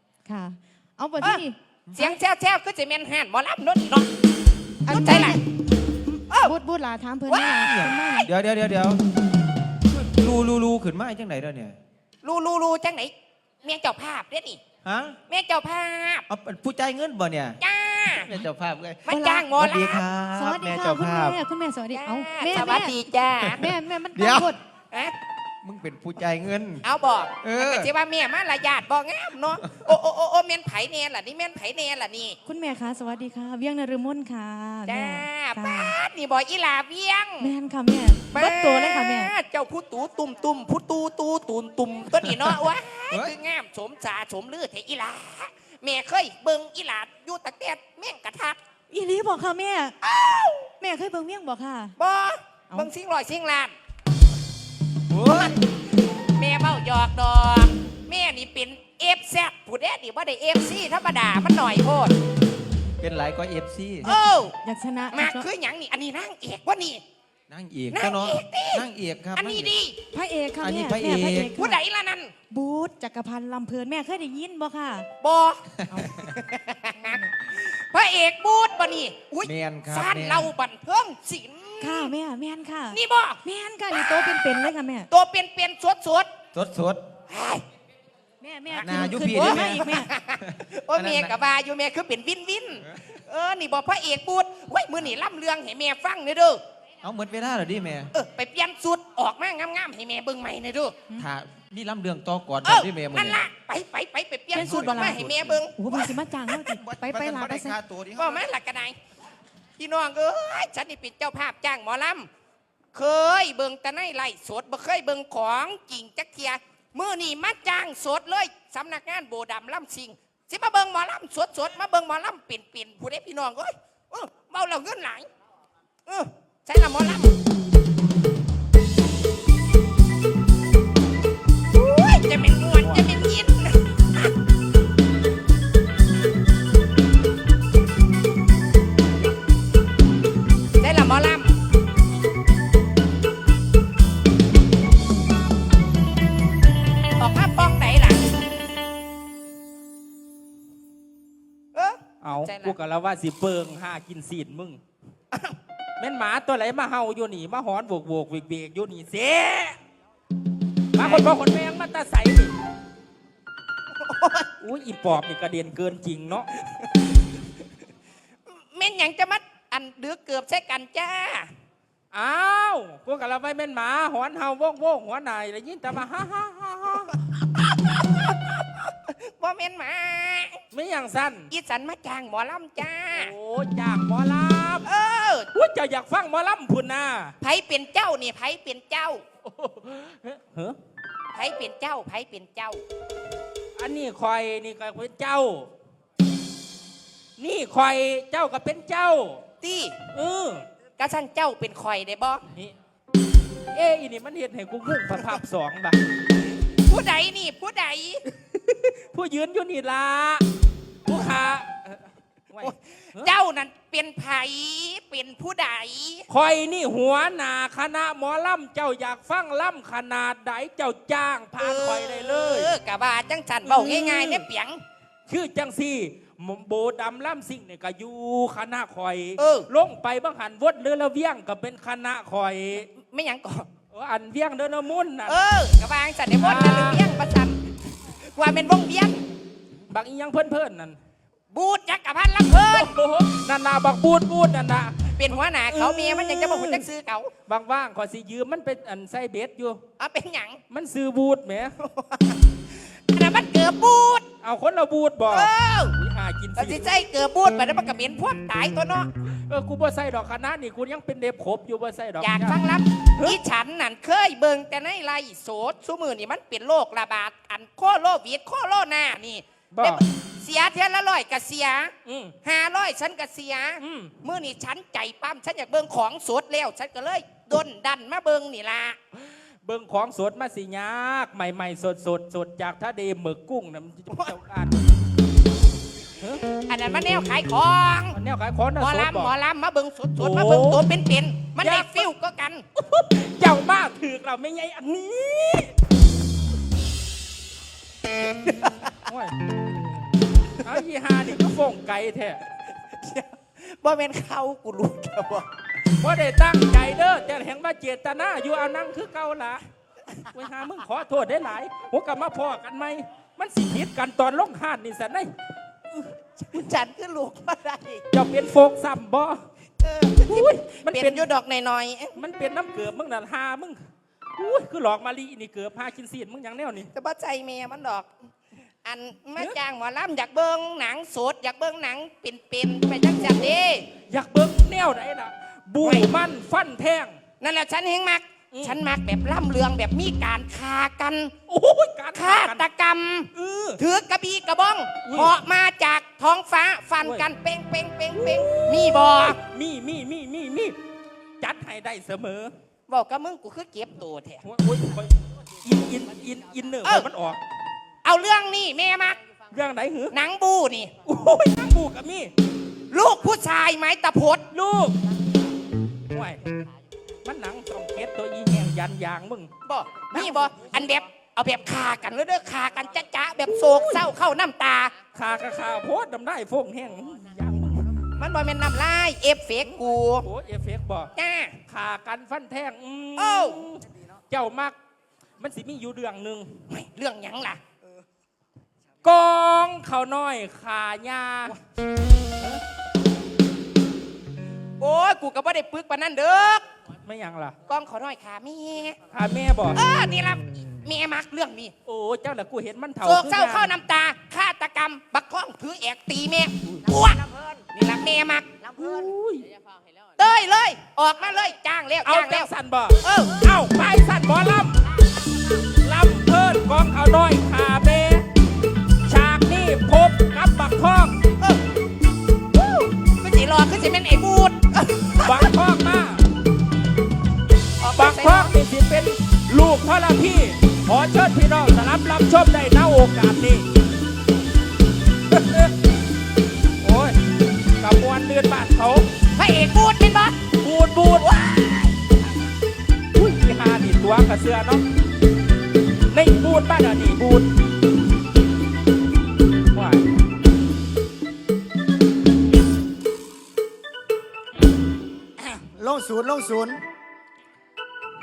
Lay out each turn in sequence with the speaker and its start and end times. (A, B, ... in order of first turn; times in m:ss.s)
0:00.2-0:01.6 A
0:01.2-0:04.1 B
0:04.8-0:05.4 A
0:04.9-0:05.4 B
0:06.1-0:06.5 B
0:06.4-0:08.3 A
0:07.3-0:08.1 B
0:07.6-0:09.0 C
0:09.9-0:11.8 C
0:12.2-0:13.1 B
0:13.6-0:14.6 B
0:14.8-0:15.2 C
0:15.3-0:16.2 B
0:16.3-0:17.6 C
0:17.6-0:18.3 B
0:18.2-0:21.4 C
0:19.0-0:20.0 B
0:20.3-0:23.0 A
0:21.9-0:23.6 B
0:23.6-0:24.6 A
0:24.1-0:24.5 C
0:25.6-0:26.8 C
0:26.8-0:32.4 B
0:27.4-0:27.9 C
0:29.6-0:29.9 C
0:32.4-0:35.9 A
0:34.9-0:37.5 B
0:37.4-0:39.3 A
0:38.3-0:48.6 B
0:42.2-0:42.5 C
0:48.9-0:51.9 A
0:52.0-0:53.7 B
0:55.1-0:55.6 C
0:55.3-0:55.6 B
0:56.3-1:02.2 B
1:03.0-1:04.1 C
1:04.0-1:05.5 A
1:04.0-1:04.5 B
1:05.1-1:07.0 B
1:07.5-1:09.8 C
1:07.9-1:10.0 B
1:10.1-1:11.8 A
1:10.6-1:11.6 C
1:11.6-1:12.3 B
1:12.5-1:15.1 A
1:15.2-1:15.6 B
1:15.9-1:16.2 A
1:16.2-1:22.1 B
1:17.0-1:17.3 A
1:19.4-1:20.5 C
1:21.8-1:25.1 A
1:22.9-1:23.4 B
1:23.9-1:24.5 B
1:25.1-1:26.3 B
1:26.5-1:27.0 C
1:27.3-1:27.6 B
1:28.4-1:30.1 A
1:28.8-1:29.8 C
1:29.3-1:36.6 B
1:30.4-1:31.4 C
1:37.0-1:38.1 C
1:38.1-1:41.0 B
1:41.2-1:43.4 C
1:42.6-1:46.1 B
1:44.5-1:45.2 A
1:44.6-1:45.7 C
1:45.7-1:47.8 A
1:46.5-1:48.5 C
1:48.2-1:49.0 B
1:49.8-1:52.3 B
1:52.9-2:05.3 B
2:06.1-2:07.4 B
2:11.7-2:14.3 B
2:12.8-2:13.1 D
2:20.8-2:21.6 B
2:27.2-2:28.2 B
2:31.7-2:32.8 B
2:32.2-2:34.8 D
2:36.0-2:39.8 D
2:40.9-2:42.5 D
2:41.0-2:41.2 B
2:44.0-2:44.5 B
2:44.6-2:46.5 D
2:48.5-2:51.5 B
2:52.1-2:57.2 D
2:58.1-3:00.6 B
3:00.7-3:01.5 D
3:01.5-3:03.3 B
3:03.1-3:04.9 D
3:04.8-3:05.5 B
3:05.5-3:07.3 D
3:07.4-3:09.2 B
3:09.5-3:10.8 D
3:11.3-3:12.8 B
3:13.8-3:15.7 D
3:17.4-3:19.4 D
3:19.6-3:20.0 B
3:20.1-3:20.6 D
3:21.0-3:22.4 B
3:23.7-3:26.0 D
3:26.8-3:28.2 B
3:28.7-3:30.4 D
3:31.0-3:33.3 D
3:32.6-3:36.2 B
3:36.3-3:42.7 D
3:41.6-3:44.8 B
3:43.6-3:44.4 D
3:45.3-3:52.9 D
3:49.4-3:49.7 B
3:52.8-3:53.7 B
3:53.9-3:55.4 D
3:55.2-3:57.6 B
3:56.4-3:57.0 D
3:58.2-3:59.2 B
3:59.9-4:01.0 D
4:01.5-4:02.9 B
4:02.6-4:06.9 D
4:05.2-4:07.3 B
4:07.4-4:09.8 D
4:10.0-4:10.6 B
4:10.7-4:11.7 D
4:11.8-4:14.2 B
4:14.4-4:16.9 D
4:15.3-4:15.9 B
4:16.6-4:19.1 B
4:19.5-4:22.6 D
4:22.2-4:39.0 B
4:29.7-4:30.0 D
4:32.0-4:32.3 D
4:33.8-4:34.2 D
4:39.2-4:44.8 D
4:46.2-4:46.4 D
4:46.7-4:48.2 B
4:48.1-4:49.3 D
4:48.8-4:52.6 B
4:50.2-4:50.9 D
4:51.6-4:52.1 D
4:52.7-4:55.7 D
4:58.5-4:59.3 D
5:00.6-5:02.4 D
5:02.9-5:05.4 B
5:06.0-5:09.6 D
5:10.3-5:15.3 D
5:15.9-5:18.0 B
5:18.1-5:19.4 D
5:19.8-5:22.2 B
5:20.2-5:21.3 D
5:22.1-5:23.8 D
5:24.4-5:26.9 D
5:26.9-5:28.1 B
5:28.8-5:33.9 B
5:34.1-5:37.2 D
5:35.8-5:36.1 B
5:37.4-5:41.3 B
5:38.5-5:38.8 D
5:41.5-5:42.6 D
5:42.1-5:49.4 B
5:43.3-5:43.8 D
5:45.0-5:45.4 D
5:47.0-5:47.3 D
5:48.1-5:50.8 D
5:51.4-5:52.5 D
5:52.9-5:54.4 B
5:54.4-5:57.4 D
5:56.8-5:57.1 B
5:58.0-5:59.2 B
5:59.5-6:00.2 D
6:00.1-6:01.0 B
6:01.0-6:02.3 D
6:02.9-6:04.4 B
6:04.5-6:05.0 D
6:06.1-6:06.4 D
6:07.2-6:09.5 D
6:09.6-6:14.9 B
6:10.1-6:10.6 D
6:15.1-6:18.0 D
6:18.1-6:20.3 B
6:20.2-6:21.1 D
6:21.2-6:21.6 B
6:21.6-6:24.7 D
6:23.2-6:23.7 B
6:25.4-6:26.6 D
6:26.7-6:27.6 B
6:29.0-6:31.6 D
6:34.8-6:36.6 B
6:37.0-6:37.6 D
6:37.7-6:39.0 B
6:39.1-6:39.8 D
6:39.7-6:41.7 B
6:41.8-6:43.7 D
6:43.0-6:47.2 B
6:46.8-6:47.7 E
6:47.7-6:48.6 B
6:48.6-6:49.1 E
6:48.8-6:49.4 D
6:50.2-6:52.5 B
6:52.0-6:54.8 D
6:53.0-6:53.4 B
6:55.8-6:58.2 D
6:59.0-7:01.2 D
7:03.0-7:05.5 B
7:05.2-7:06.2 D
7:07.8-7:08.5 B
7:08.0-7:13.6 D
7:15.3-7:15.7 D
7:16.8-7:17.2 D
7:17.8-7:19.1 D
7:19.4-7:20.4 B
7:20.6-7:21.3 D
7:21.1-7:21.9 B
7:23.1-7:24.8 D
7:26.1-7:27.5 D
7:29.7-7:30.0 D
7:35.4-7:36.8 E